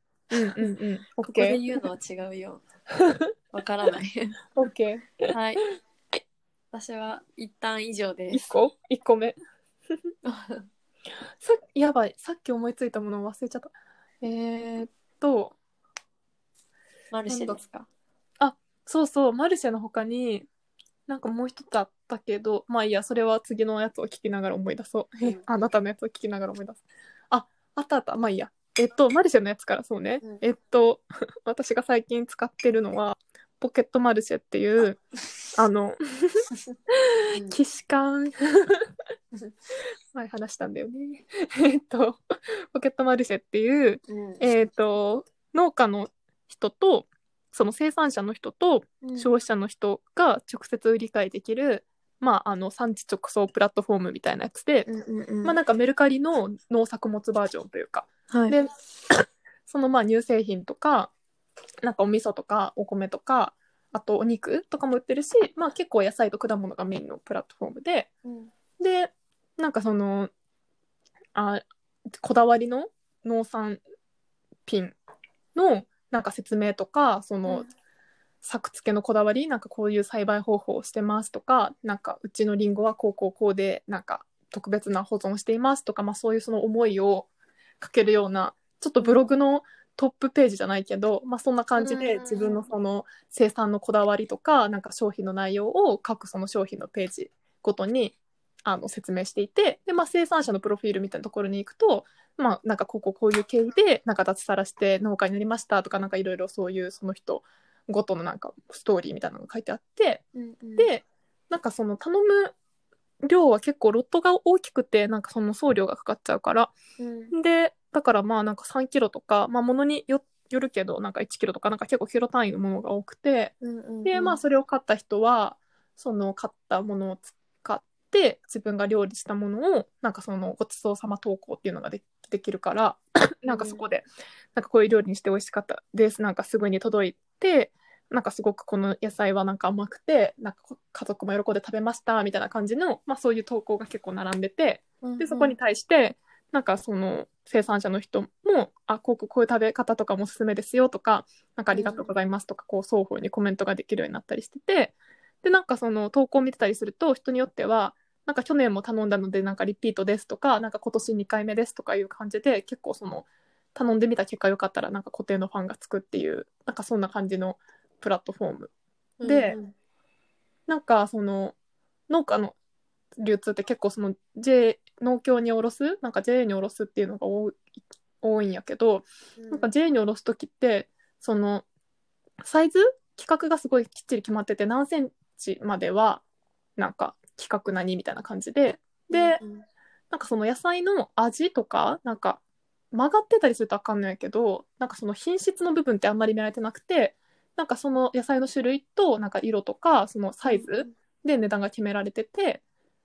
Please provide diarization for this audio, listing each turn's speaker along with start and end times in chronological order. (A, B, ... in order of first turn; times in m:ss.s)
0:00.3-0:01.6 A
0:01.2-0:02.6 B
0:03.0-0:03.3 A
0:03.5-0:04.4 B
0:04.5-0:05.3 A
0:05.3-0:05.6 B
0:06.7-0:08.4 B
0:08.3-0:09.4 A
0:10.2-0:10.7 B
0:11.4-0:15.6 A
0:17.1-0:17.9 B
0:17.3-0:17.6 A
0:18.4-0:20.5 A
0:21.1-0:35.0 A
0:35.5-0:36.4 A
0:37.0-0:38.8 A
0:40.1-0:42.2 A
0:42.7-0:54.9 A
0:44.1-0:44.4 B
0:49.0-0:49.3 B
0:54.8-0:55.6 B
0:55.4-1:01.1 A
0:58.3-0:58.6 B
1:01.8-1:08.1 A
1:08.2-1:08.5 B
1:08.8-1:10.3 A
1:11.3-1:11.6 A
1:12.2-1:13.8 A
1:14.6-1:15.0 A
1:15.5-1:17.7 A
1:18.4-1:27.3 A
1:27.8-1:50.2 A
1:31.8-1:32.7 B
1:50.3-1:50.9 B
1:50.8-1:52.5 A
1:53.2-1:56.7 A
1:57.0-1:57.3 B
1:57.3-2:03.5 A
2:03.6-2:04.4 B
2:04.0-2:48.7 A
2:13.5-2:13.8 B
2:25.0-2:25.6 B
2:31.7-2:32.1 B
2:49.2-2:49.7 B
2:49.2-2:49.6 A
2:50.7-2:51.6 A
2:52.1-2:52.5 A
2:53.2-2:57.6 A
2:58.2-3:01.6 A
2:59.4-2:59.7 B
3:02.4-3:06.2 A
3:06.8-3:09.4 A
3:09.1-3:09.6 B
3:10.1-3:12.4 A
3:12.9-3:22.6 A
3:20.4-3:20.9 B